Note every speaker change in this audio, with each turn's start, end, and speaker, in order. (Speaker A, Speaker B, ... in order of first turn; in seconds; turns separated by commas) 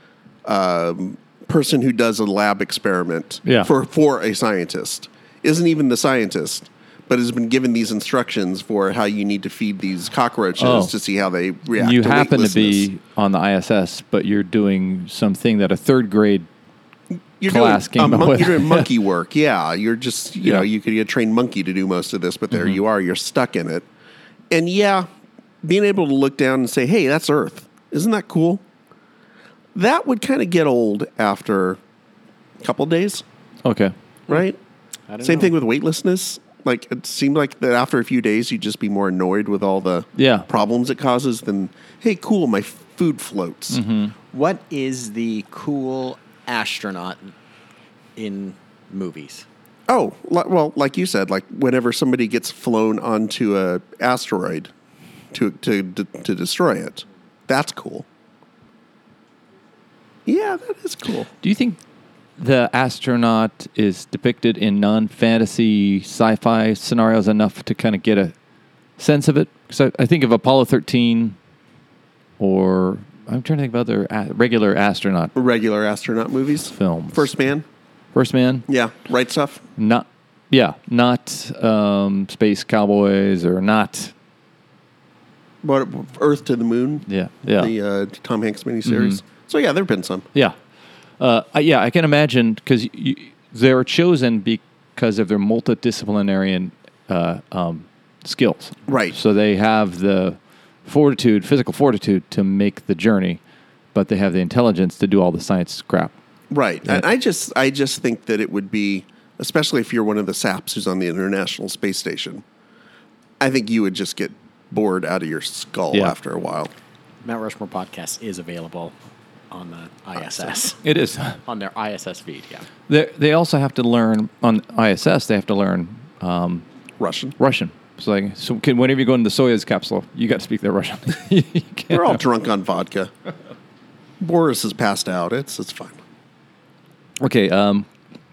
Speaker A: 0.5-12.9, Speaker B: 3.4-3.7, Speaker B: 10.6-10.9, Speaker B: 11.8-16.5, Speaker A: 17.4-23.9, Speaker B: 17.4-18.9, Speaker A: 24.5-25.1, Speaker A: 25.6-28.6, Speaker A: 29.7-31.8, Speaker A: 32.6-33.2, Speaker B: 33.6-33.9, Speaker A: 34.3-34.6, Speaker C: 35.1-35.5, Speaker A: 35.2-43.8, Speaker B: 40.1-40.5, Speaker B: 43.7-44.1, Speaker C: 44.3-47.3, Speaker C: 48.1-49.5, Speaker A: 49.9-54.7, Speaker A: 55.3-58.1, Speaker A: 60.2-61.3, Speaker B: 61.4-61.8, Speaker B: 62.4-68.3, Speaker B: 69.0-71.4, Speaker B: 72.4-75.3, Speaker A: 75.3-77.7, Speaker B: 76.7-77.3, Speaker B: 78.1-78.7, Speaker A: 78.7-79.6, Speaker B: 79.8-84.1, Speaker A: 85.6-90.3, Speaker B: 87.1-87.7, Speaker B: 88.8-89.2, Speaker B: 91.2-103.4, Speaker A: 98.9-99.2, Speaker B: 103.9-106.1, Speaker A: 106.5-112.4, Speaker A: 113.4-116.7, Speaker C: 117.2-118.9, Speaker C: 119.5-120.8, Speaker A: 120.2-120.5, Speaker B: 120.8-121.4, Speaker C: 121.5-122.6, Speaker B: 122.9-126.6, Speaker A: 127.0-127.3, Speaker B: 127.4-132.2, Speaker A: 131.9-133.1, Speaker A: 134.2-136.0, Speaker B: 137.2-137.9